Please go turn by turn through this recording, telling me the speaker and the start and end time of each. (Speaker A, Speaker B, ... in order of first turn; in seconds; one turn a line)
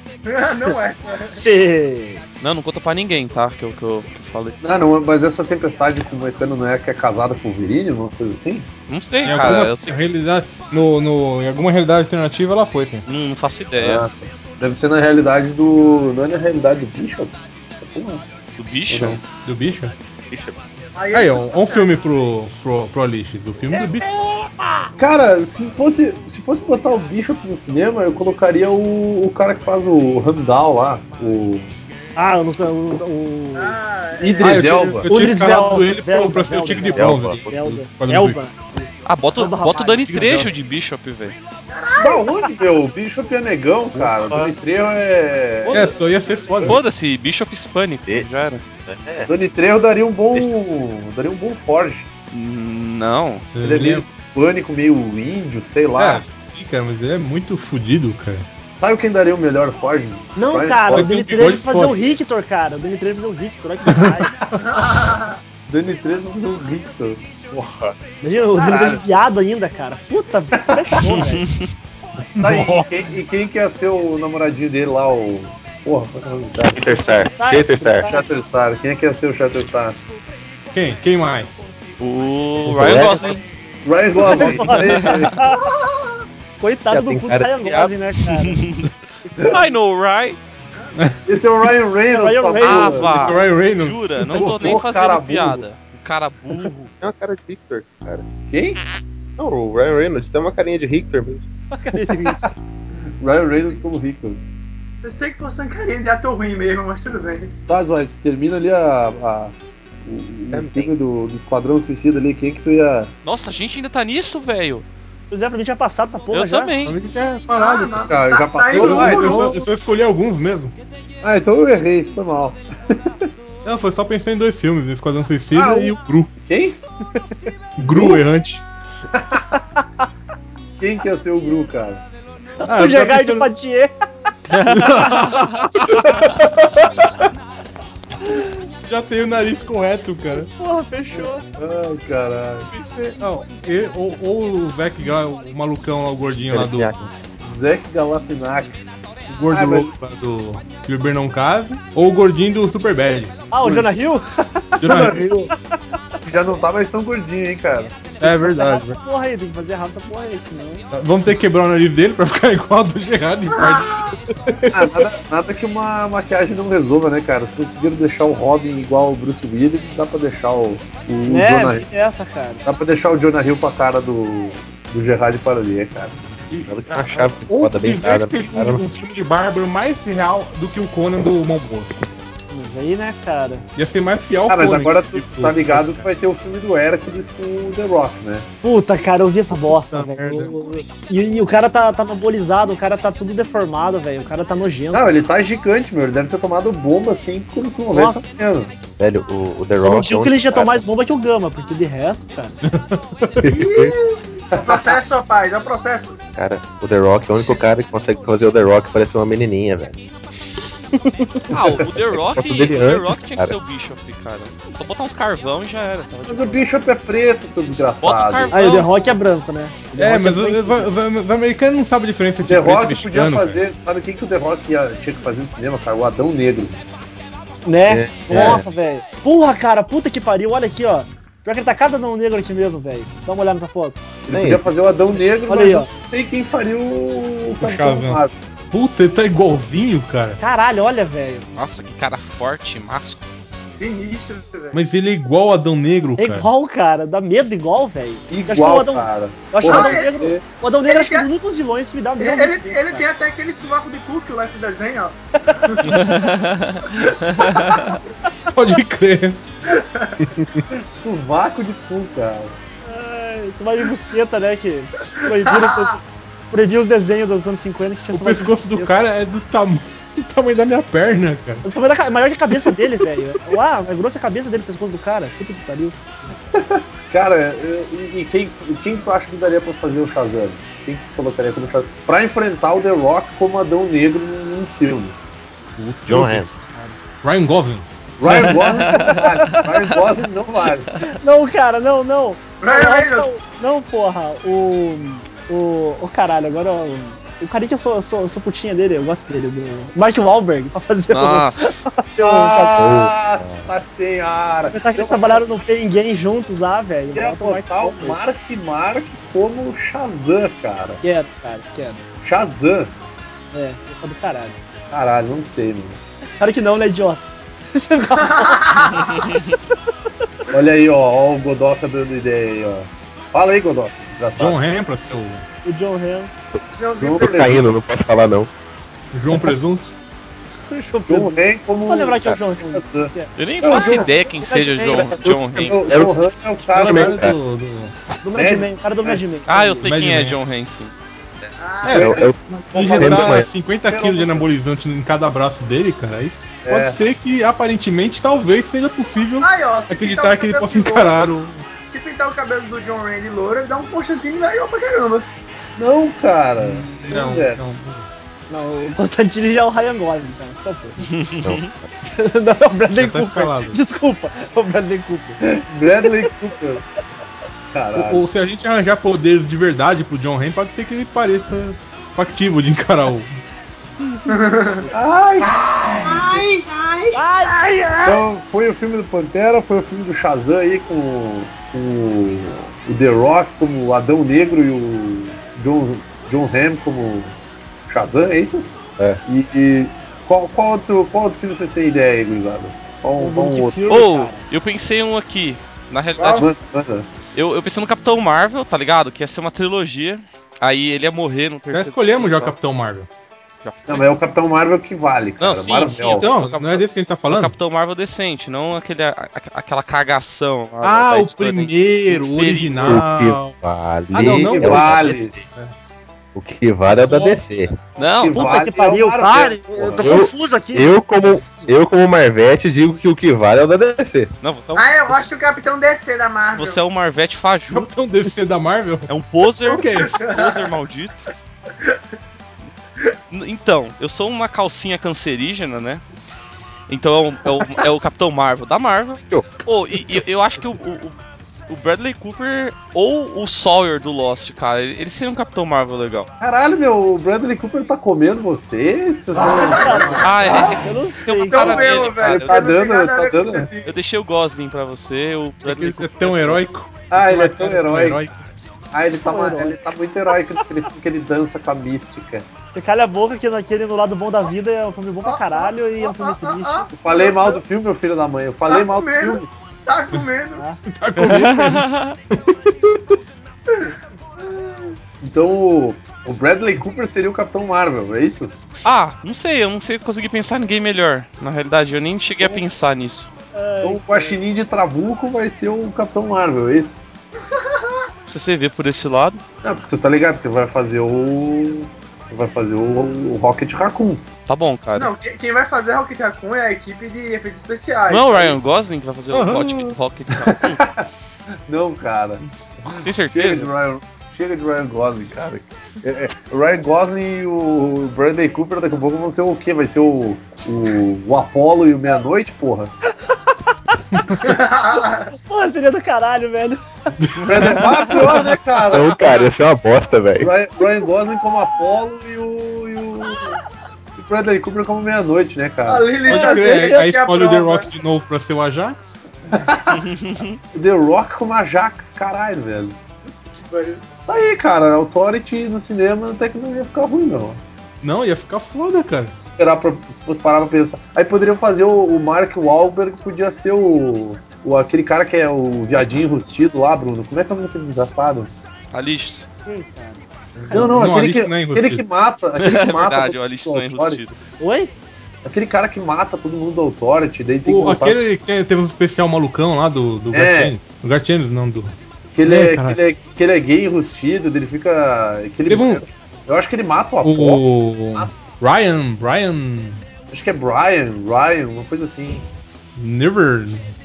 Speaker A: 0.2-1.4
Speaker B: 1.3-2.2
Speaker C: 2.4-4.6
Speaker D: 4.6-8.7
Speaker C: 8.9-10.0
Speaker E: 9.2-13.1
Speaker C: 13.1-14.1
Speaker D: 13.8-18.2
Speaker C: 18.6-19.2
Speaker D: 18.9-19.2
Speaker E: 19.4-19.9
Speaker F: 20.3-20.6
Speaker A: 20.9-22.0
Speaker E: 21.1-24.1
Speaker F: 24.1-24.9
Speaker D: 25.0-31.7
Speaker B: 32.1-33.8
Speaker A: 33.5-34.8
Speaker D: 34.2-35.1
Speaker E: 34.4-38.4
Speaker B: 35.1-40.3
Speaker F: 36.9-37.6
Speaker C: 39.0-41.4
Speaker E: 40.1-40.5
Speaker A: 41.7-42.5
Speaker D: 42.0-45.9
Speaker F: 43.9-44.5
Speaker E: 45.7-46.8
Speaker B: 46.0-46.5
Speaker C: 46.6-48.6
Speaker F: 48.8-49.3
Speaker D: 49.3-52.1
Speaker C: 52.3-53.5
Speaker E: 53.5-54.1
Speaker D: 53.6-56.2
Speaker E: 56.0-58.4
Speaker D: 58.8-61.1
Speaker B: 60.4-64.3
Speaker E: 60.9-62.2
Speaker E: 63.9-64.2
Speaker A: 64.6-65.4
Speaker D: 65.7-67.5
Speaker F: 67.5-67.9
Speaker B: 68.2-71.5
Speaker D: 68.5-69.0
Speaker D: 70.6-71.0
Speaker C: 71.0-71.7
Speaker E: 72.3-72.9
Speaker D: 72.4-77.0
Speaker F: 76.7-78.1
Speaker B: 77.0-78.2
Speaker D: 77.8-80.0
Speaker E: 80.7-81.5
Speaker C: 82.0-83.4
Speaker F: 82.6-83.4
Speaker D: 83.8-86.0
Speaker B: 84.2-85.6
Speaker F: 84.3-84.6
Speaker C: 84.5-85.2
Speaker B: 86.6-88.6
Speaker F: 86.9-87.9
Speaker C: 88.5-88.8
Speaker C: 89.5-90.4
Speaker D: 91.2-93.3
Speaker B: 92.1-93.0
Speaker C: 92.6-96.9
Speaker E: 93.1-94.8
Speaker D: 94.3-95.6
Speaker F: 97.0-98.3
Speaker D: 98.5-98.8
Speaker F: 99.4-101.5
Speaker B: 101.7-102.4
Speaker D: 103.2-104.4
Speaker A: 105.0-107.5
Speaker D: 107.7-109.5
Speaker D: 110.0-113.1
Speaker F: 110.5-110.9
Speaker C: 113.2-114.8
Speaker B: 115.3-116.7
Speaker C: 116.3-117.0
Speaker E: 116.8-118.1
Speaker A: 117.5-119.6
Speaker D: 118.1-119.6
Speaker E: 118.7-120.7
Speaker D: 121.2-123.3
Speaker E: 123.6-126.3
Speaker D: 125.5-125.9
Speaker D: 126.5-126.8
Speaker E: 127.8-128.6
Speaker D: 127.8-128.2
Speaker D: 129.1-129.4
Speaker D: 130.8-132.0
Speaker E: 132.6-133.5
Speaker B: 132.6-133.9
Speaker C: 134.5-135.5
Speaker E: 134.7-136.2
Speaker E: 138.9-140.5
Speaker B: 140.6-141.4
Speaker D: 141.6-142.7
Speaker E: 142.7-146.9
Speaker F: 146.5-147.1
Speaker D: 147.4-149.9
Speaker E: 149.3-153.3
Speaker B: 153.5-155.5
Speaker D: 153.6-153.9
Speaker E: 154.8-155.2
Speaker D: 154.8-155.5
Speaker D: 156.2-158.2
Speaker E: 158.2-159.0
Speaker B: 158.2-160.8
Speaker E: 160.9-164.7
Speaker D: 164.7-171.8
Speaker B: 171.2-172.6
Speaker D: 172.6-176.2
Speaker E: 176.5-181.9
Speaker F: 176.7-178.8
Speaker B: 182.5-183.6
Speaker E: 183.8-186.0
Speaker D: 184.5-188.5
Speaker B: 188.6-195.1
Speaker E: 189.5-190.6
Speaker D: 194.9-198.7
Speaker B: 197.9-198.3
Speaker F: 199.0-200.8
Speaker B: 199.8-202.6
Speaker E: 202.6-203.4
Speaker F: 203.4-203.9
Speaker A: 203.4-206.2
Speaker D: 204.5-204.9
Speaker F: 206.3-210.0
Speaker B: 210.9-211.4
Speaker C: 211.5-216.6
Speaker F: 212.1-213.5
Speaker D: 216.2-218.5
Speaker C: 218.0-219.1
Speaker B: 218.5-220.9
Speaker E: 220.0-223.6
Speaker D: 222.4-226.8
Speaker B: 227.6-234.0
Speaker F: 227.9-228.6
Speaker D: 228.3-228.6
Speaker D: 234.3-238.3
Speaker F: 234.3-234.7
Speaker B: 235.5-235.9
Speaker E: 237.6-238.2
Speaker E: 238.7-240.4
Speaker B: 240.4-241.5
Speaker C: 241.5-243.3
Speaker A: 243.6-244.8
Speaker E: 244.7-246.5
Speaker B: 246.2-253.0
Speaker D: 248.3-250.4
Speaker A: 249.6-250.2
Speaker A: 250.8-251.3
Speaker A: 252.2-256.0
Speaker C: 255.8-257.9
Speaker A: 257.5-257.8
Speaker E: 258.5-259.4
Speaker A: 259.7-260.2
Speaker E: 260.2-260.6
Speaker D: 260.7-262.5
Speaker B: 262.8-268.9
Speaker A: 265.2-266.0
Speaker E: 268.1-271.6
Speaker B: 271.6-276.0
Speaker D: 276.5-285.1
Speaker E: 285.8-287.9
Speaker F: 286.1-286.5
Speaker D: 288.2-290.9
Speaker C: 288.6-289.1
Speaker B: 288.9-289.6
Speaker B: 291.0-302.9
Speaker A: 292.6-293.4
Speaker C: 301.1-301.9
Speaker D: 302.2-305.4
Speaker F: 302.7-303.7
Speaker B: 304.7-308.2
Speaker D: 307.1-311.0
Speaker B: 311.0-312.0
Speaker D: 312.2-312.9
Speaker B: 313.5-314.6
Speaker D: 314.9-316.0
Speaker B: 316.4-319.3
Speaker A: 318.3-318.9
Speaker D: 320.5-324.6
Speaker E: 324.4-325.4
Speaker B: 325.6-326.3
Speaker A: 326.7-327.6
Speaker D: 327.0-327.6
Speaker F: 327.1-328.5
Speaker E: 329.1-329.9
Speaker B: 330.7-335.1
Speaker D: 331.1-334.1
Speaker C: 333.4-335.7
Speaker F: 335.1-336.2
Speaker D: 335.6-337.3
Speaker E: 336.7-337.9
Speaker F: 336.7-337.4
Speaker B: 338.2-339.9
Speaker D: 338.4-339.2
Speaker C: 339.5-340.9
Speaker E: 339.8-340.4
Speaker F: 341.4-343.5
Speaker A: 341.6-342.2
Speaker E: 341.8-351.7
Speaker D: 341.9-344.5
Speaker D: 346.6-347.0
Speaker A: 349.4-355.3
Speaker D: 355.8-357.6
Speaker E: 356.6-358.1
Speaker B: 358.5-361.0
Speaker C: 361.0-361.6
Speaker F: 361.4-361.9
Speaker B: 362.1-365.4
Speaker E: 362.9-363.8
Speaker D: 365.4-366.8
Speaker D: 367.7-368.2
Speaker E: 367.9-373.4
Speaker A: 374.3-374.9
Speaker D: 374.9-376.4
Speaker A: 376.0-377.2
Speaker B: 377.1-377.6
Speaker D: 378.0-387.3
Speaker D: 387.9-388.7
Speaker D: 389.2-393.9
Speaker B: 393.2-394.4
Speaker C: 393.9-396.5
Speaker D: 396.2-397.1
Speaker C: 397.3-402.6
Speaker E: 401.7-403.1
Speaker C: 403.6-404.1
Speaker D: 403.9-406.2
Speaker C: 405.4-413.0
Speaker E: 406.1-407.5
Speaker E: 410.8-413.5
Speaker F: 412.8-415.4
Speaker E: 414.1-415.7
Speaker D: 414.2-415.3
Speaker F: 416.3-417.7
Speaker E: 417.1-417.4
Speaker C: 418.0-418.6
Speaker D: 418.1-420.2
Speaker B: 418.3-421.7
Speaker F: 420.0-424.3
Speaker C: 424.4-425.3
Speaker A: 424.7-426.8
Speaker C: 426.5-427.9
Speaker E: 427.7-429.1
Speaker C: 429.1-431.3
Speaker E: 429.6-430.2
Speaker A: 430.1-430.6
Speaker C: 433.3-436.0
Speaker C: 436.9-441.1
Speaker C: 441.7-446.3
Speaker D: 446.4-450.8
Speaker A: 449.5-450.2
Speaker B: 449.5-451.8
Speaker C: 450.2-452.6
Speaker A: 451.5-453.9
Speaker D: 452.2-453.7
Speaker C: 453.8-456.6
Speaker E: 455.6-458.5
Speaker D: 457.1-458.2
Speaker D: 458.9-462.4
Speaker B: 459.1-460.6
Speaker B: 462.7-466.9
Speaker A: 465.2-467.6
Speaker D: 466.9-469.5
Speaker A: 468.7-470.7
Speaker E: 470.8-473.0
Speaker C: 471.2-472.2
Speaker D: 475.2-478.6
Speaker C: 478.8-483.3
Speaker B: 483.5-484.4
Speaker D: 483.8-487.0
Speaker A: 487.5-487.9
Speaker C: 488.3-489.4
Speaker D: 489.6-494.2
Speaker C: 494.4-495.1
Speaker A: 494.9-498.6
Speaker C: 498.1-500.8
Speaker D: 500.3-501.1
Speaker D: 501.7-512.9
Speaker C: 503.0-503.7
Speaker B: 513.3-514.4
Speaker E: 514.1-514.4
Speaker A: 514.4-515.3
Speaker B: 515.3-516.8
Speaker E: 517.2-517.8
Speaker D: 517.5-519.5
Speaker F: 518.9-520.5
Speaker D: 520.4-523.6
Speaker D: 524.1-526.8
Speaker A: 525.9-527.9
Speaker E: 526.3-529.1
Speaker B: 526.4-527.0
Speaker D: 529.5-530.0
Speaker C: 529.9-530.6
Speaker D: 530.7-533.0
Speaker A: 533.7-534.0
Speaker D: 534.3-537.6
Speaker E: 538.0-539.3
Speaker D: 539.4-548.5
Speaker C: 548.9-549.5
Speaker B: 549.6-550.9
Speaker D: 550.7-554.3
Speaker E: 550.7-552.0
Speaker C: 552.6-554.3
Speaker B: 554.6-554.9
Speaker D: 555.4-558.2
Speaker E: 557.6-563.0
Speaker D: 560.3-560.7
Speaker D: 562.3-567.6
Speaker E: 565.7-566.0
Speaker E: 567.2-570.0
Speaker D: 570.3-572.5
Speaker E: 573.0-573.9